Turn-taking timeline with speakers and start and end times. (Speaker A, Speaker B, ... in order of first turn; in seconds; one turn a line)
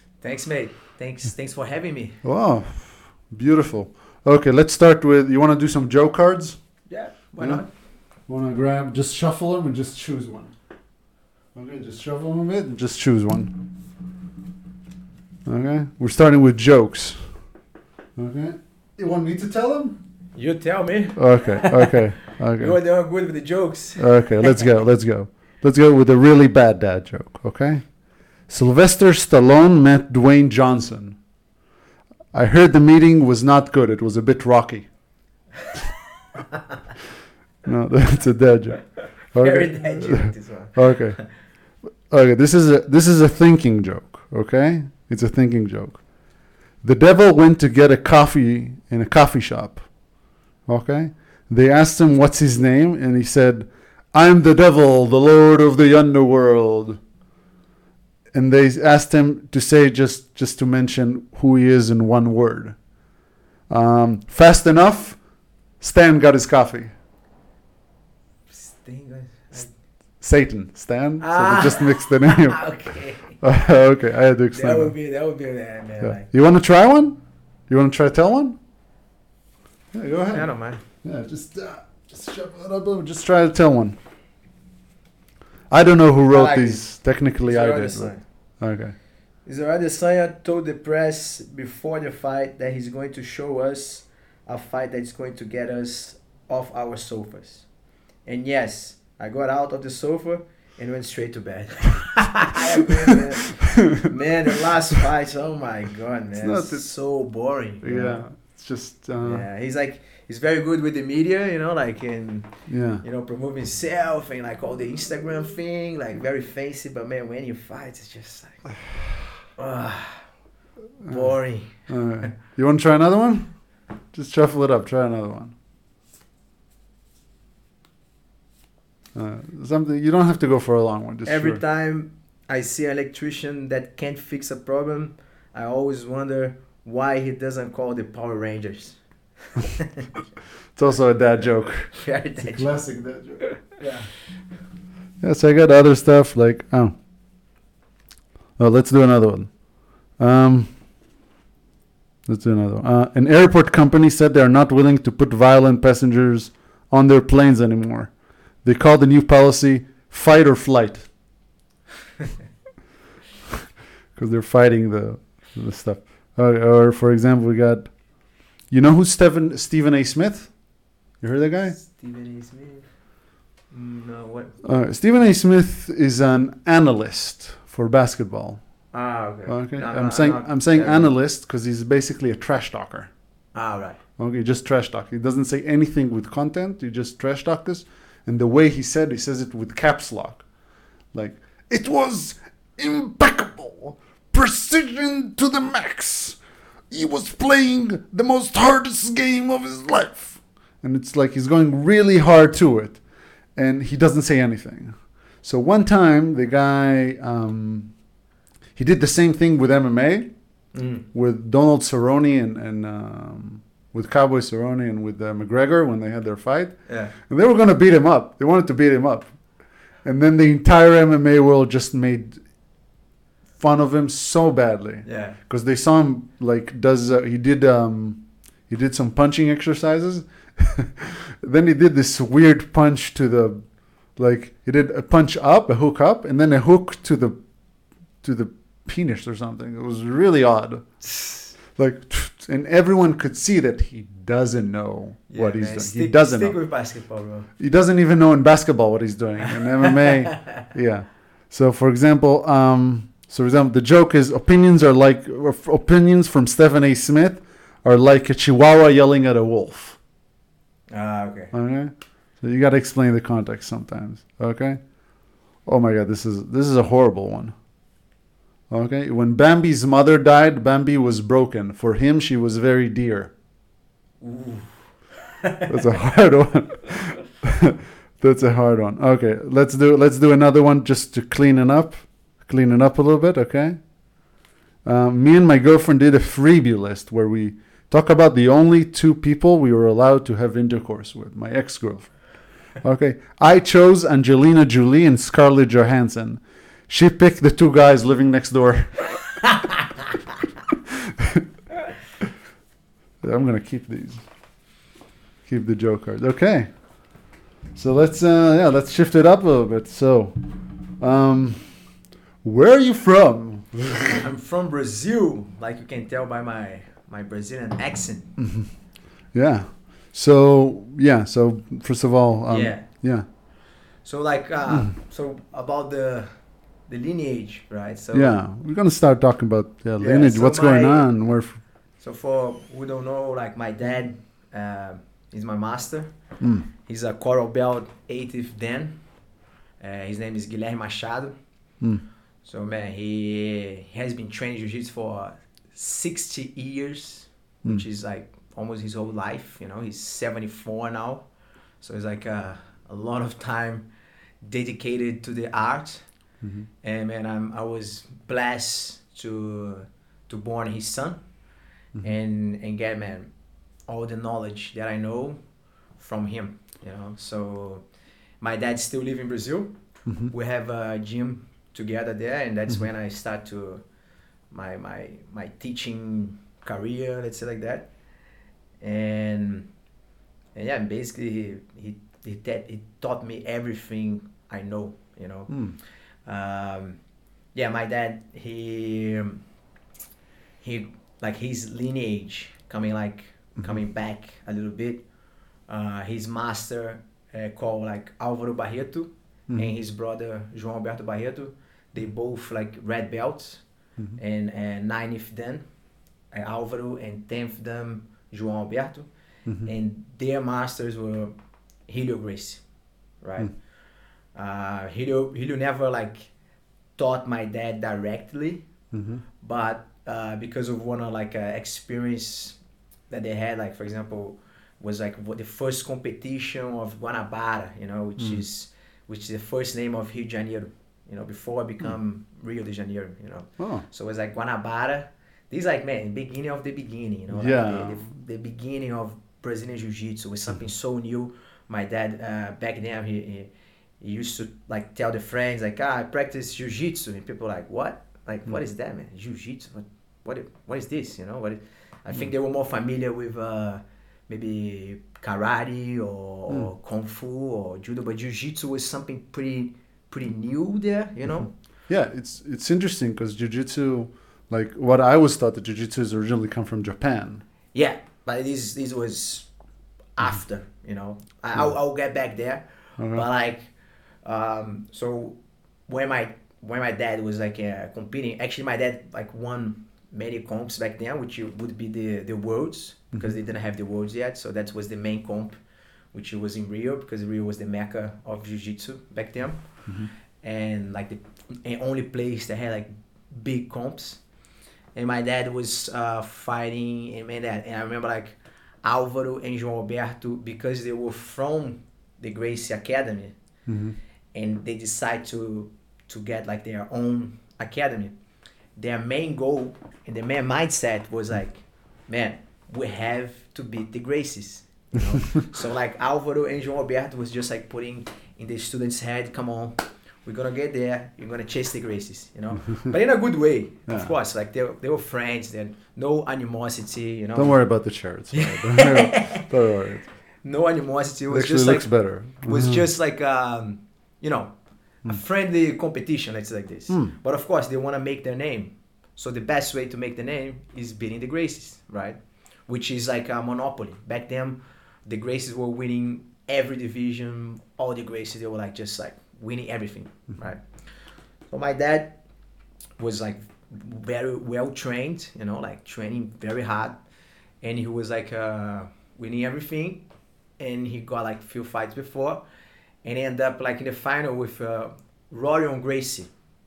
Speaker A: 0.2-2.2
Speaker B: 2.2-6.9
Speaker A: 6.9-7.7
Speaker B: 7.4-10.5
Speaker B: 11.6-13.7
Speaker B: 15.5-17.5
Speaker B: 18.2-20.0
Speaker A: 20.4-22.0
Speaker B: 21.2-22.8
Speaker A: 22.6-24.7
Speaker B: 24.0-31.2
Speaker B: 32.3-34.9
Speaker B: 37.6-41.4
Speaker A: 39.4-41.2
Speaker B: 42.0-57.0
Speaker B: 58.3-62.8
Speaker B: 63.7-66.9
Speaker A: 68.5-69.8
Speaker B: 70.1-72.7
Speaker A: 71.2-73.5
Speaker B: 73.2-74.9
Speaker A: 74.5-76.3
Speaker B: 76.0-78.6
Speaker B: 79.9-84.0
Speaker A: 80.3-80.8
Speaker B: 85.7-89.0
Speaker A: 86.3-88.3
Speaker A: 89.4-97.7
Speaker A: 98.2-108.3
Speaker B: 106.4-106.9
Speaker B: 107.8-109.5
Speaker A: 109.2-118.9
Speaker B: 112.7-113.0
Speaker A: 119.5-120.3
Speaker B: 121.0-125.5
Speaker A: 121.0-122.3
Speaker B: 129.2-131.6
Speaker A: 131.2-140.1
Speaker B: 140.8-143.7
Speaker A: 141.3-142.9
Speaker A: 143.7-144.1
Speaker B: 145.2-147.0
Speaker B: 148.6-150.8
Speaker B: 152.3-161.2
Speaker B: 164.2-171.8
Speaker A: 171.7-172.9
Speaker A: 173.7-174.6
Speaker B: 174.6-178.9
Speaker A: 178.9-181.1
Speaker B: 179.5-183.1
Speaker A: 183.5-184.0
Speaker B: 184.2-190.5
Speaker B: 191.1-208.1
Speaker B: 208.8-210.4
Speaker A: 210.7-211.1
Speaker B: 211.1-222.5
Speaker A: 216.9-217.1
Speaker B: 223.6-237.4
Speaker A: 225.1-225.4
Speaker B: 238.2-241.1
Speaker A: 241.1-241.5
Speaker B: 241.7-246.6
Speaker A: 245.3-247.5
Speaker B: 247.6-260.0
Speaker A: 249.7-250.5
Speaker A: 260.9-261.5
Speaker B: 261.5-267.6
Speaker B: 268.7-273.3
Speaker A: 274.2-275.7
Speaker B: 275.7-283.8
Speaker B: 284.8-299.4
Speaker B: 303.2-304.3
Speaker B: 305.4-307.2
Speaker B: 307.7-311.9
Speaker B: 312.4-314.1
Speaker A: 314.0-318.4
Speaker B: 318.4-318.8
Speaker B: 319.3-323.3
Speaker A: 322.5-323.3
Speaker A: 324.0-326.3
Speaker A: 326.9-328.4
Speaker B: 328.1-331.6
Speaker A: 330.0-331.1
Speaker A: 332.0-336.1
Speaker B: 336.4-336.7
Speaker A: 336.8-339.0
Speaker A: 339.8-341.3
Speaker A: 342.4-351.3
Speaker A: 351.8-353.9
Speaker A: 354.4-356.1
Speaker B: 356.4-356.7
Speaker A: 356.8-361.2
Speaker A: 362.0-363.3
Speaker A: 363.9-365.4
Speaker A: 366.0-367.9
Speaker A: 368.4-369.8
Speaker A: 370.3-373.8
Speaker A: 374.5-377.9
Speaker A: 378.8-379.7
Speaker A: 380.6-387.0
Speaker B: 385.5-385.8
Speaker A: 387.5-389.4
Speaker A: 390.6-395.0
Speaker A: 395.7-403.6
Speaker A: 404.2-405.6
Speaker A: 406.3-409.1
Speaker A: 409.6-411.3
Speaker A: 411.9-412.6
Speaker A: 413.2-413.6
Speaker A: 414.3-416.3
Speaker A: 417.0-418.7
Speaker B: 418.9-419.2
Speaker A: 419.4-422.6
Speaker A: 423.1-461.5
Speaker B: 433.6-433.9
Speaker B: 437.3-438.1
Speaker B: 461.9-467.4
Speaker A: 467.7-469.5
Speaker A: 470.2-473.7
Speaker B: 473.0-473.3
Speaker A: 474.2-485.6
Speaker A: 486.1-489.9
Speaker A: 490.4-494.2
Speaker A: 494.9-503.4
Speaker B: 503.7-504.0
Speaker A: 504.3-508.1
Speaker A: 508.8-527.6
Speaker B: 527.4-530.1
Speaker A: 528.3-529.5
Speaker A: 530.4-552.2
Speaker B: 531.3-532.8
Speaker B: 536.9-537.1
Speaker A: 553.0-557.0
Speaker A: 557.6-560.1
Speaker A: 560.6-562.4
Speaker A: 563.0-566.3